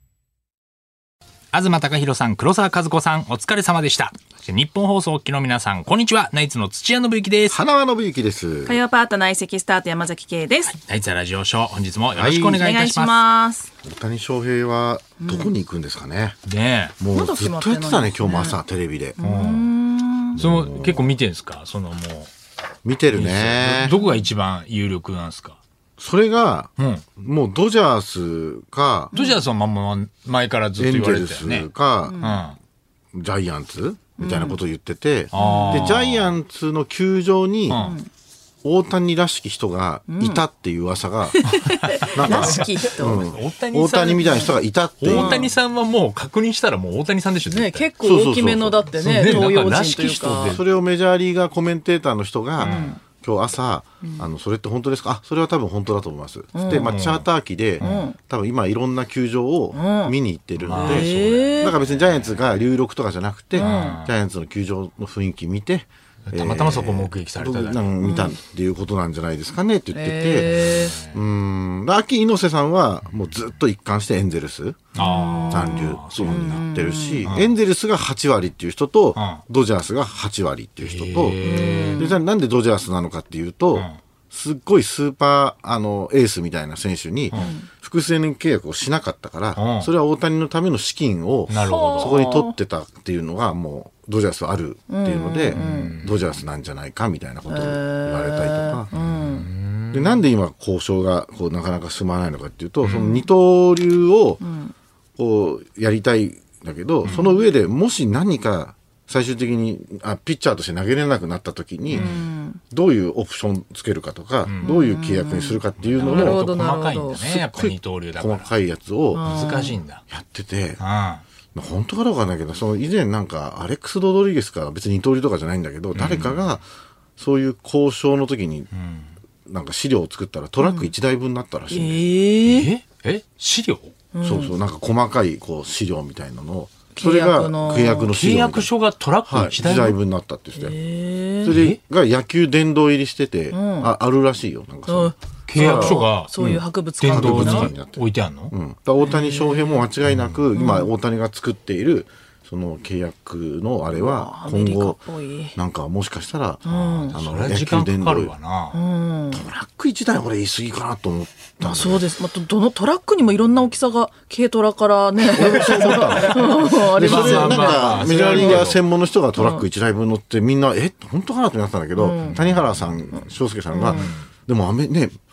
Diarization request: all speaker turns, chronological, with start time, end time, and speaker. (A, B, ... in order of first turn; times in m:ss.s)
0:01.5-0:07.6 A
0:07.5-0:08.8 B
0:08.6-0:10.8 C
0:10.7-0:13.2 A
0:12.1-0:12.6 B
0:12.5-0:13.7 C
0:13.8-0:16.4 B
0:15.2-0:15.5 C
0:16.5-0:17.0 A
0:17.0-0:19.2 B
0:17.1-0:18.6 C
0:19.2-0:20.4 C
0:19.2-0:19.7 A
0:20.4-0:22.3 A
0:20.4-0:21.1 B
0:22.8-0:23.9 B
0:23.1-0:25.6 A
0:24.0-0:24.2 C
0:26.0-0:29.1 B
0:26.8-0:27.0 A
0:29.1-0:29.4 C
0:29.1-0:31.7 A
0:30.8-0:32.2 B
0:32.0-0:32.4 C
0:32.2-0:32.6 A
0:33.1-0:37.9 B
0:34.2-0:34.6 C
0:35.3-0:36.3 A
0:35.3-0:35.9 C
0:37.7-0:38.0 A
0:37.7-0:38.1 C
0:38.6-0:45.4 B
0:40.1-0:40.4 C
0:41.4-0:43.3 C
0:41.8-0:47.9 A
0:45.1-0:45.5 C
0:47.5-0:50.6 C
0:48.0-0:49.5 B
0:49.0-0:50.6 A
0:50.4-1:14.9 B
0:52.6-0:53.0 A
0:52.6-0:53.0 C
0:56.5-0:56.9 C
0:56.7-0:57.2 A
0:57.8-0:58.0 A
0:57.8-0:58.2 C
0:59.7-1:00.1 C
1:00.6-1:02.5 A
1:00.7-1:01.7 C
1:03.5-1:04.0 C
1:03.6-1:04.1 A
1:06.3-1:07.8 A
1:08.0-1:08.4 C
1:09.9-1:11.0 C
1:10.4-1:11.2 A
1:14.9-1:16.6 A
1:15.0-1:17.3 C
1:15.5-1:38.9 B
1:17.2-1:17.5 A
1:19.2-1:19.4 A
1:20.8-1:22.1 A
1:21.4-1:22.1 C
1:27.3-1:27.7 C
1:29.6-1:29.9 A
1:31.5-1:32.2 A
1:31.6-1:32.5 C
1:34.9-1:36.0 C
1:35.5-1:36.2 A
1:37.5-1:39.4 C
1:38.9-1:40.2 A
1:39.9-1:44.4 B
1:42.8-1:43.1 A
1:42.9-1:43.2 C
1:44.4-1:44.7 C
1:45.2-1:52.1 B
1:47.0-1:47.4 C
1:51.9-1:52.6 C
1:51.9-1:52.2 A
1:52.7-1:56.4 B
1:54.4-1:54.8 A
1:54.6-1:57.2 C
1:55.8-1:58.5 A
1:57.2-1:59.3 B
1:59.1-1:59.8 C
1:59.2-2:00.0 A
2:00.1-2:00.8 B
2:00.8-2:01.2 A
2:01.5-2:06.6 B
2:05.9-2:06.4 A
2:07.2-2:08.7 B
2:08.7-2:09.1 A
2:09.4-2:12.1 B
2:10.6-2:10.9 C
2:11.7-2:12.7 C
2:12.5-2:13.9 A
2:14.1-2:14.5 C
2:14.2-2:18.7 B
2:16.9-2:18.1 C
2:18.1-2:20.0 A
2:19.3-2:20.8 B
2:20.5-2:21.5 C
2:21.4-2:35.0 B
2:21.4-2:21.8 A
2:23.5-2:23.9 C
2:24.9-2:27.7 C
2:25.5-2:28.5 A
2:29.0-2:29.8 C
2:30.0-2:30.4 A
2:30.5-2:30.9 C
2:33.9-2:35.6 C
2:35.6-2:38.3 B
2:36.6-2:37.1 C
2:36.7-2:38.8 A
2:38.7-2:39.4 C
2:39.3-2:42.1 B
2:41.6-2:48.7 C
2:45.2-2:55.2 B
2:46.9-2:48.8 A
2:49.4-2:49.6 C
2:52.0-2:52.4 C
2:52.3-2:52.9 A
2:53.7-2:54.1 C
2:53.9-2:54.2 A